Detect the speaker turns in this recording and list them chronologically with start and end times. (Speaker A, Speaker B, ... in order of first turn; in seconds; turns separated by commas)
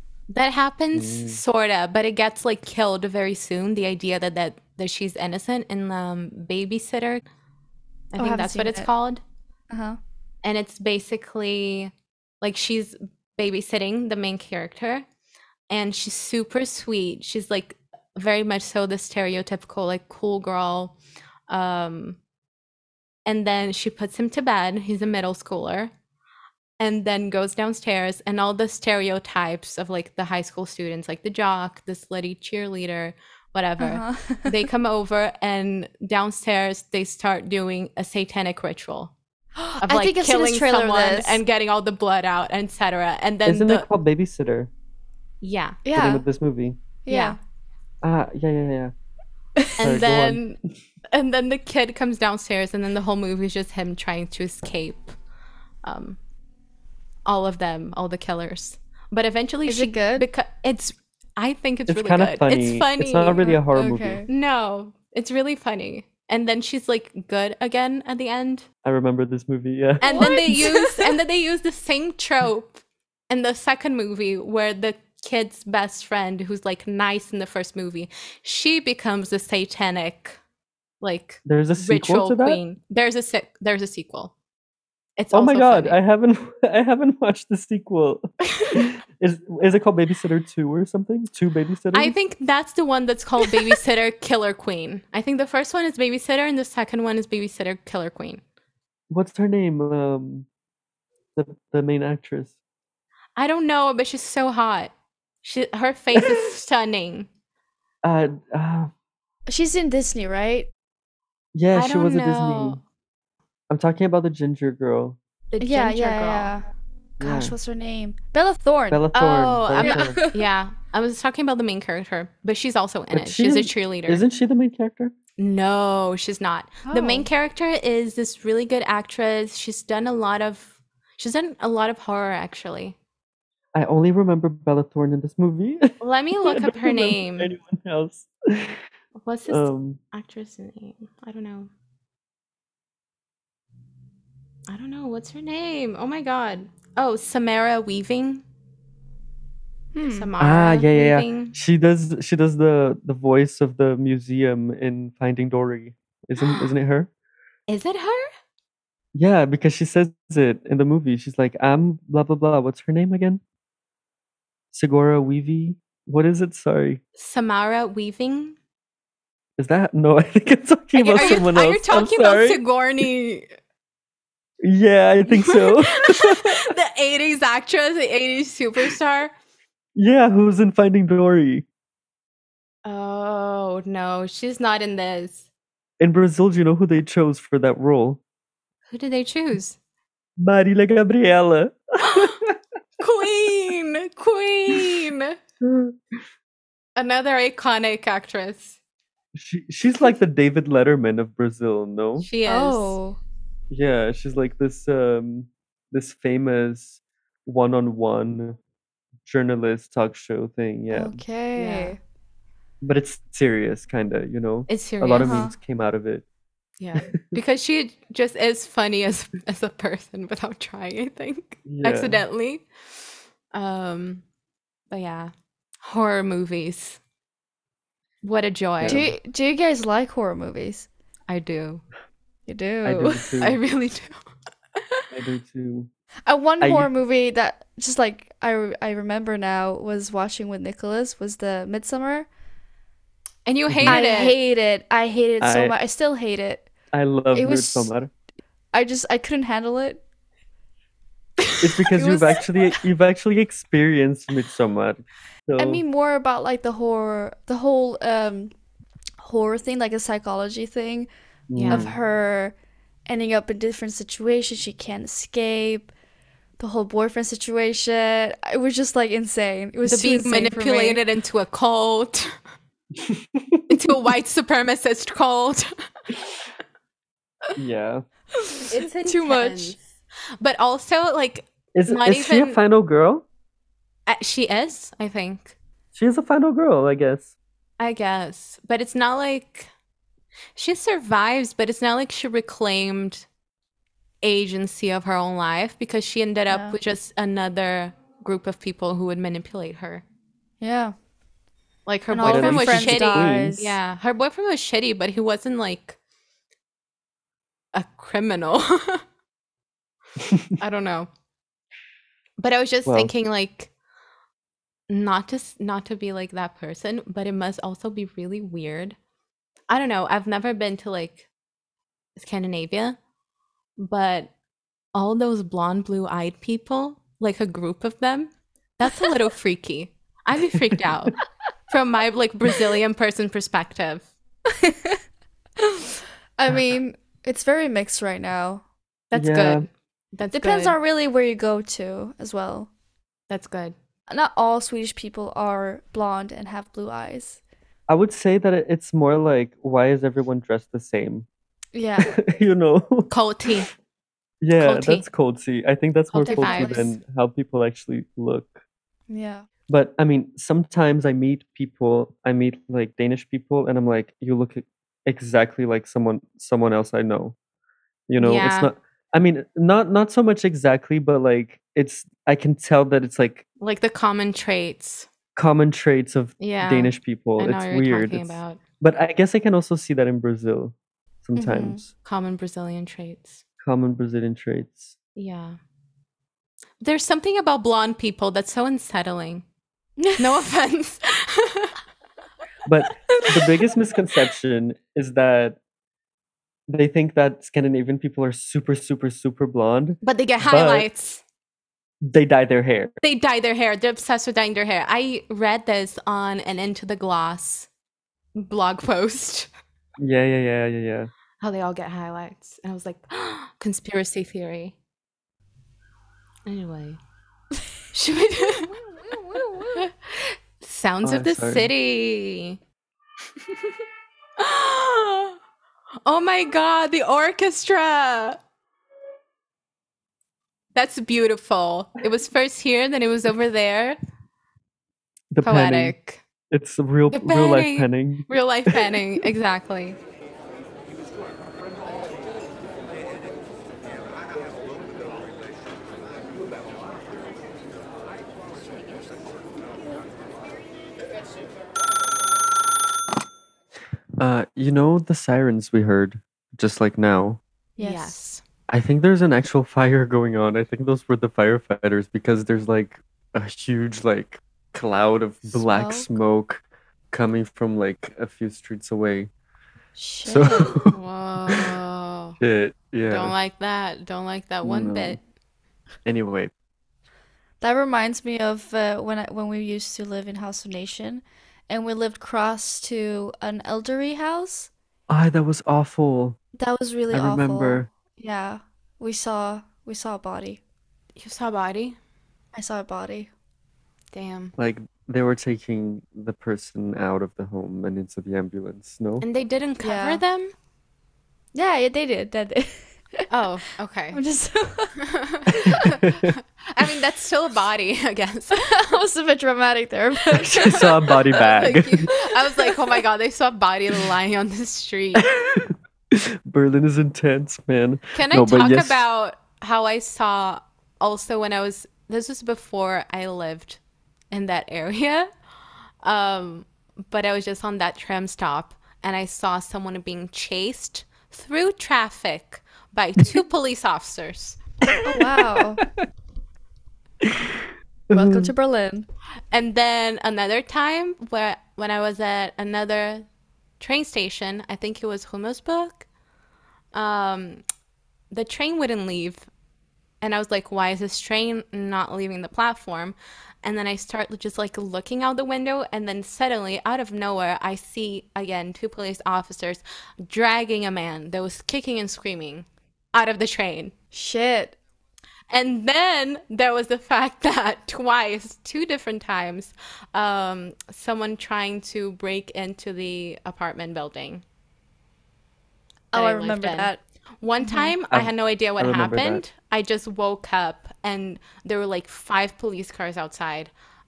Speaker A: 0.3-7.2, Speaker B: 0.9-1.4, Speaker A: 8.1-9.2, Speaker C: 8.2-8.9, Speaker C: 9.7-10.0, Speaker A: 10.4-15.0, Speaker A: 15.7-20.9, Speaker A: 21.5-22.2, Speaker A: 23.3-25.9, Speaker A: 26.8-39.1, Speaker C: 33.8-34.6, Speaker C: 39.6-41.4, Speaker A: 39.8-43.9, Speaker B: 43.4-44.7, Speaker A: 45.4-45.8, Speaker C: 45.8-46.2, Speaker B: 45.9-46.8, Speaker C: 47.0-47.4, Speaker A: 47.1-47.4, Speaker B: 48.0-48.9, Speaker A: 49.8-50.6, Speaker B: 49.8-50.4, Speaker A: 51.1-55.1, Speaker A: 55.8-56.2, Speaker A: 57.2-63.6, Speaker C: 59.6-60.3, Speaker B: 61.9-64.2, Speaker C: 63.4-64.3, Speaker A: 64.3-68.7, Speaker B: 68.8-70.6, Speaker C: 70.0-71.1, Speaker A: 70.0-80.4, Speaker A: 81.0-84.3, Speaker B: 81.5-82.6, Speaker A: 85.2-86.0, Speaker B: 85.3-92.1, Speaker A: 91.9-98.4, Speaker B: 99.1-100.5, Speaker B: 101.3-102.5, Speaker A: 103.4-107.3, Speaker B: 106.2-106.4, Speaker B: 108.0-108.9, Speaker C: 109.5-110.7, Speaker B: 111.5-112.8, Speaker A: 111.7-112.8, Speaker B: 113.7-115.2, Speaker A: 115.5-116.5, Speaker C: 115.6-116.6, Speaker C: 117.2-119.0, Speaker B: 117.2-117.5, Speaker B: 118.9-120.2, Speaker A: 119.1-124.2, Speaker C: 119.8-120.4, Speaker B: 123.1-125.1, Speaker A: 125.4-132.9, Speaker C: 126.8-127.3, Speaker B: 133.7-138.8, Speaker A: 136.0-137.5, Speaker A: 139.2-141.7, Speaker B: 139.5-140.0, Speaker A: 144.7-148.4, Speaker C: 149.9-150.3, Speaker A: 150.0-151.5, Speaker B: 150.4-157.1, Speaker A: 156.4-156.7, Speaker A: 157.7-158.3, Speaker B: 159.1-163.4, Speaker B: 164.7-167.0, Speaker A: 167.2-168.6, Speaker B: 169.6-172.6, Speaker A: 170.9-173.5, Speaker B: 174.6-176.6, Speaker A: 175.3-179.3, Speaker B: 179.9-181.7, Speaker A: 182.8-185.4, Speaker B: 186.0-188.2, Speaker A: 188.9-189.8, Speaker B: 190.4-192.6, Speaker A: 192.0-192.4, Speaker A: 193.0-195.3, Speaker B: 194.7-195.0, Speaker B: 195.6-195.9, Speaker A: 197.0-198.8, Speaker B: 199.3-202.3, Speaker A: 202.2-203.0, Speaker C: 202.5-203.2, Speaker B: 203.7-208.6, Speaker B: 209.2-211.2, Speaker C: 210.9-212.0, Speaker A: 211.6-212.0, Speaker B: 212.8-216.2, Speaker A: 214.7-215.5, Speaker C: 215.2-215.5, Speaker A: 216.8-222.7, Speaker B: 221.6-222.2, Speaker A: 223.5-224.2, Speaker A: 224.9-225.3, Speaker A: 225.8-227.0, Speaker A: 228.2-229.0, Speaker B: 228.8-229.1, Speaker C: 228.9-230.9, Speaker A: 231.3-231.8, Speaker C: 232.5-233.3, Speaker B: 232.8-233.6, Speaker A: 233.4-234.2, Speaker A: 234.8-235.0, Speaker B: 235.1-235.9, Speaker C: 236.2-242.3, Speaker B: 236.6-236.9, Speaker A: 243.4-244.4, Speaker B: 243.7-244.1, Speaker C: 243.8-246.7, Speaker B: 245.4-245.7, Speaker B: 246.9-248.1, Speaker C: 247.3-247.9, Speaker C: 248.7-250.0, Speaker B: 251.6-255.8, Speaker C: 251.9-252.5, Speaker C: 255.6-258.5, Speaker C: 259.2-261.1, Speaker B: 261.5-261.9, Speaker A: 261.6-261.9, Speaker C: 261.7-262.5, Speaker C: 263.1-265.9, Speaker C: 266.6-271.0, Speaker A: 269.9-272.3, Speaker B: 272.9-273.8, Speaker A: 273.7-275.7, Speaker B: 277.6-278.0, Speaker C: 278.4-279.8, Speaker A: 278.6-279.8, Speaker A: 280.4-282.6, Speaker B: 281.7-283.2, Speaker A: 284.1-285.6, Speaker B: 285.9-287.3, Speaker A: 287.8-289.7, Speaker A: 290.6-293.2, Speaker A: 294.2-300.0, Speaker C: 296.5-296.8, Speaker C: 300.6-300.9, Speaker A: 301.9-306.0, Speaker C: 302.1-303.8, Speaker B: 302.2-303.5, Speaker A: 307.7-309.0, Speaker B: 310.2-310.5, Speaker A: 310.6-311.1, Speaker A: 312.4-313.7, Speaker B: 312.9-313.1, Speaker A: 314.9-318.9, Speaker A: 319.7-321.2, Speaker A: 322.2-323.0, Speaker A: 323.8-324.3, Speaker A: 324.9-331.2, Speaker A: 331.7-334.1, Speaker C: 334.6-335.0, Speaker C: 335.6-338.6, Speaker A: 339.1-340.8, Speaker B: 339.1-339.7, Speaker C: 340.3-342.7, Speaker A: 343.3-343.7, Speaker C: 344.1-347.4, Speaker B: 347.9-351.3, Speaker C: 351.7-352.2, Speaker B: 352.0-353.6, Speaker A: 353.1-353.7, Speaker B: 354.4-358.6, Speaker A: 354.6-355.0, Speaker A: 356.1-356.8, Speaker C: 356.2-357.0, Speaker C: 359.1-359.4, Speaker B: 359.7-367.4, Speaker B: 368.1-373.4, Speaker A: 368.2-368.7, Speaker A: 373.6-375.1, Speaker B: 375.4-381.9, Speaker A: 376.4-378.6, Speaker C: 381.4-381.8, Speaker A: 382.0-383.4, Speaker B: 383.6-384.9, Speaker A: 385.1-385.6, Speaker A: 386.8-389.4, Speaker C: 390.0-390.4, Speaker A: 390.2-391.7, Speaker B: 392.6-395.6, Speaker A: 393.2-393.5, Speaker B: 396.7-400.9, Speaker A: 400.0-401.2, Speaker B: 402.0-402.9, Speaker A: 403.0-407.7, Speaker A: 408.4-409.5, Speaker B: 410.0-411.1, Speaker A: 411.4-414.8, Speaker A: 416.4-417.0, Speaker A: 417.9-422.6, Speaker C: 419.0-419.8, Speaker B: 421.0-421.7, Speaker A: 424.4-425.4, Speaker A: 426.0-428.4, Speaker A: 430.7-434.0, Speaker B: 435.3-435.9, Speaker A: 435.4-436.2, Speaker B: 436.5-439.0, Speaker A: 437.1-440.0, Speaker B: 454.2-457.4, Speaker C: 457.8-458.2, Speaker A: 457.8-458.4, Speaker B: 458.7-469.3, Speaker C: 465.5-466.1, Speaker C: 469.9-470.8, Speaker B: 470.2-470.9, Speaker A: 470.8-472.4, Speaker B: 471.5-471.8, Speaker B: 472.4-473.3, Speaker A: 473.1-475.2, Speaker B: 474.6-475.2, Speaker B: 476.0-476.5, Speaker C: 477.6-484.7, Speaker B: 485.1-486.4, Speaker C: 486.6-490.6, Speaker B: 487.1-487.9, Speaker A: 491.1-492.0, Speaker C: 492.5-493.3, Speaker A: 494.1-494.5, Speaker B: 494.6-499.2, Speaker A: 499.2-500.5, Speaker C: 499.8-500.2, Speaker C: 501.5-503.3, Speaker A: 503.3-504.2, Speaker C: 504.1-505.9, Speaker A: 505.0-509.0, Speaker B: 506.0-506.3, Speaker C: 508.6-511.4, Speaker B: 510.3-512.1, Speaker A: 510.6-515.3, Speaker C: 512.1-512.8, Speaker B: 515.1-519.0, Speaker A: 518.1-523.8, Speaker A: 524.3-525.3, Speaker A: 526.0-534.6, Speaker B: 534.9-535.8, Speaker C: 535.0-535.8, Speaker B: 537.2-538.5, Speaker C: 538.1-539.1, Speaker A: 539.5-543.2, Speaker A: 543.8-546.1, Speaker A: 546.9-547.6, Speaker A: 548.3-549.5, Speaker A: 550.2-563.9, Speaker C: 564.1-564.8, Speaker A: 565.5-574.4, Speaker C: 576.1-577.0, Speaker A: 576.1-576.9, Speaker A: 577.4-583.7, Speaker C: 577.6-577.9, Speaker B: 578.1-579.4